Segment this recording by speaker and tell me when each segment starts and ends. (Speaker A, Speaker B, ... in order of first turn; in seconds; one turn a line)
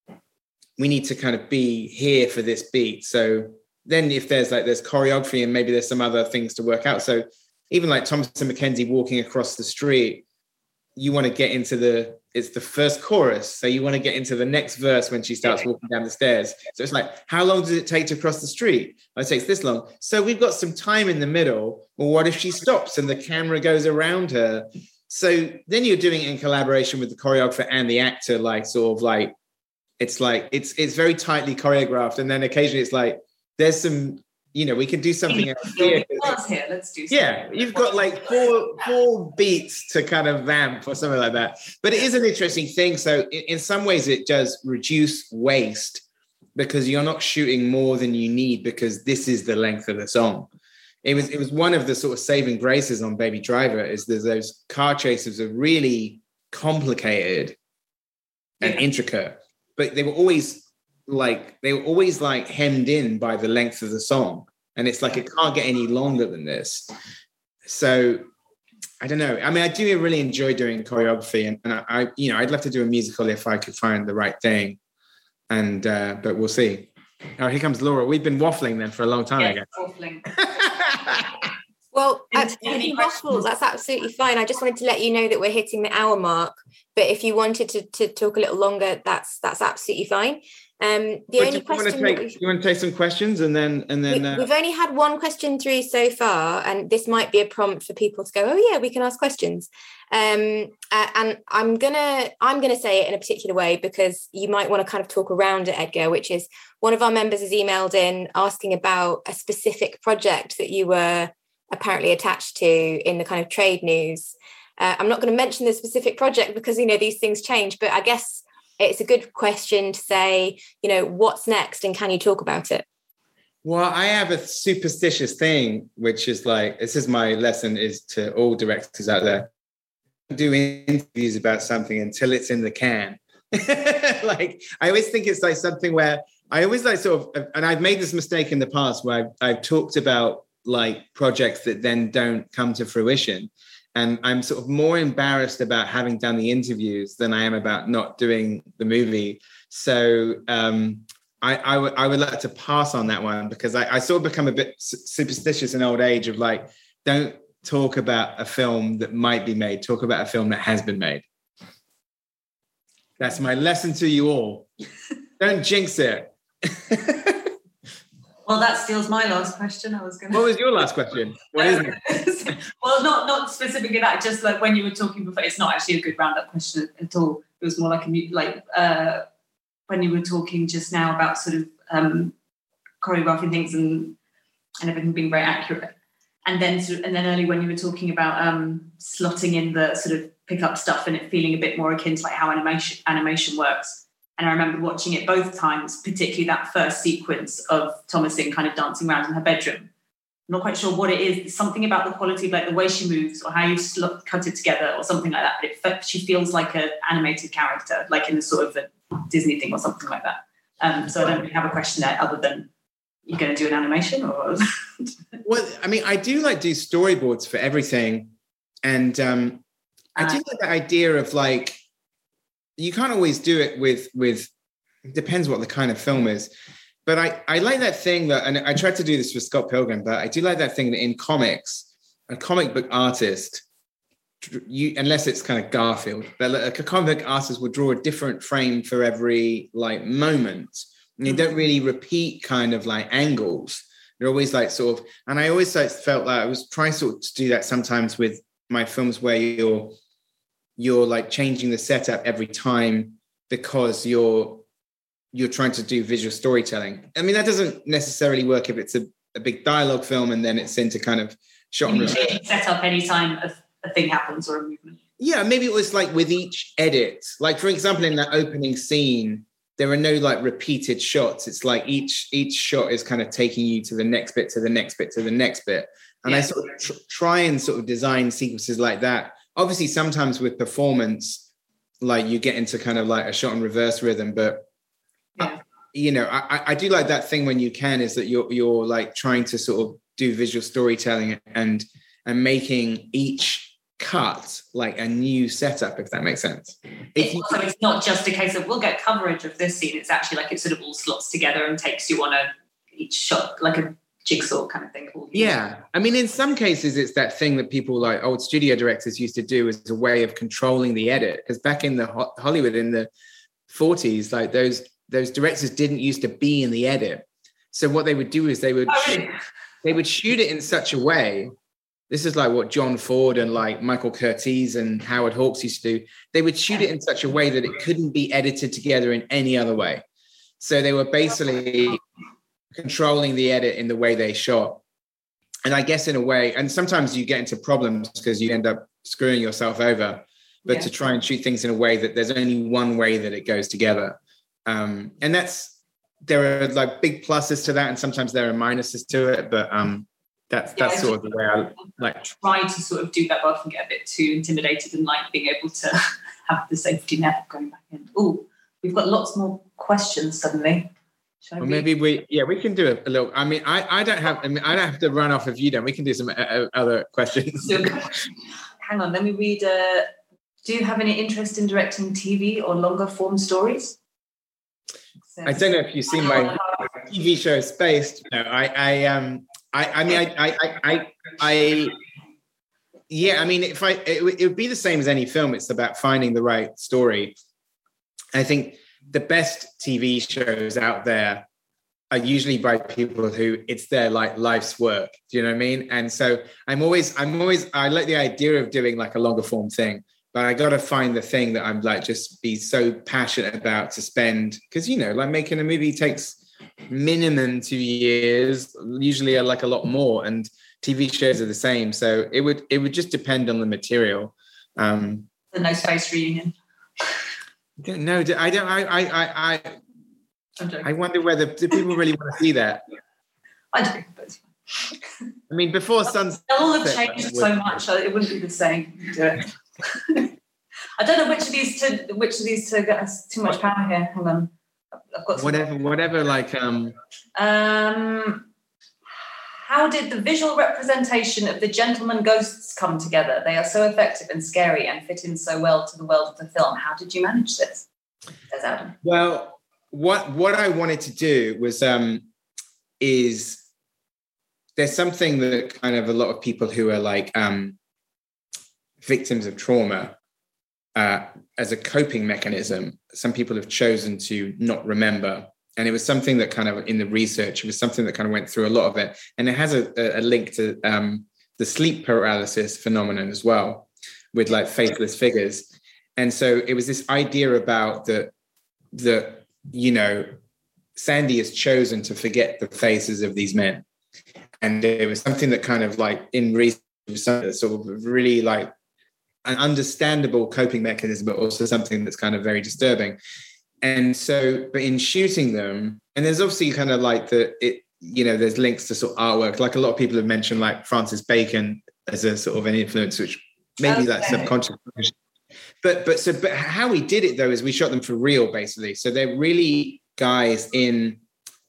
Speaker A: 0.8-10.2
Speaker A: 11.0-29.3
Speaker A: 30.0-36.4
Speaker B: 35.3-38.2
Speaker A: 37.1-46.0
Speaker A: 46.5-50.5
Speaker A: 51.0-57.5
Speaker A: 58.6-66.9
Speaker A: 67.6-68.2
Speaker A: 69.0-74.8
Speaker A: 75.5-79.7
Speaker B: 79.4-80.2
Speaker A: 80.3-81.5
Speaker C: 81.9-92.4
Speaker B: 82.3-83.5
Speaker A: 91.4-94.5
Speaker C: 94.1-122.8
Speaker A: 123.6-129.5
Speaker A: 130.3-161.2
Speaker A: 163.2-164.7
Speaker A: 165.4-167.5
Speaker B: 168.5-170.5
Speaker A: 170.3-172.0
Speaker B: 171.5-179.2
Speaker B: 179.9-182.3
Speaker B: 183.0-184.2
Speaker B: 184.8-185.9
Speaker B: 186.4-199.9
Speaker B: 200.5-212.7
Speaker B: 213.2-215.1
Speaker A: 215.4-218.3
Speaker A: 218.8-219.6
Speaker B: 220.2-220.4
Speaker A: 220.2-221.8
Speaker A: 222.8-224.5
Speaker A: 225.0-226.5
Speaker A: 227.1-233.6
Speaker A: 234.4-250.0
Speaker A: 250.8-254.6
Speaker A: 255.3-262.4
Speaker B: 261.9-265.0
Speaker A: 265.2-281.4
Speaker B: 276.2-276.5
Speaker A: 282.0-284.6
Speaker A: 285.4-297.6
Speaker B: 297.2-305.6
Speaker A: 305.3-313.1
Speaker A: 313.7-319.2
Speaker B: 318.9-319.3
Speaker A: 319.8-321.5
Speaker A: 322.1-330.0
Speaker A: 330.6-332.0
Speaker A: 332.7-334.8
Speaker A: 335.6-345.7
Speaker A: 346.2-352.4
Speaker B: 350.8-360.9
Speaker B: 361.4-361.9
Speaker A: 361.6-367.9
Speaker B: 367.6-368.2
Speaker B: 368.8-370.1
Speaker B: 370.6-374.0
Speaker B: 375.3-376.9
Speaker A: 375.4-381.9
Speaker A: 383.1-387.4
Speaker A: 388.3-391.4
Speaker A: 392.1-415.3
Speaker B: 415.5-417.2
Speaker A: 417.8-419.8
Speaker B: 420.6-420.9
Speaker A: 420.8-422.8
Speaker B: 423.7-425.0
Speaker A: 425.5-427.8
Speaker B: 426.5-430.3
Speaker B: 431.0-434.5
Speaker B: 435.1-435.7
Speaker A: 435.3-436.9
Speaker B: 437.4-438.5
Speaker B: 439.6-447.9
Speaker B: 448.5-448.9
Speaker A: 449.0-452.2
Speaker A: 453.0-453.6
Speaker A: 454.8-457.8
Speaker A: 459.0-460.1
Speaker A: 460.9-478.3
Speaker A: 478.9-480.3
Speaker A: 480.9-483.8
Speaker A: 484.6-488.7
Speaker A: 489.4-493.2
Speaker A: 493.8-505.1
Speaker B: 503.8-504.5
Speaker A: 505.8-511.2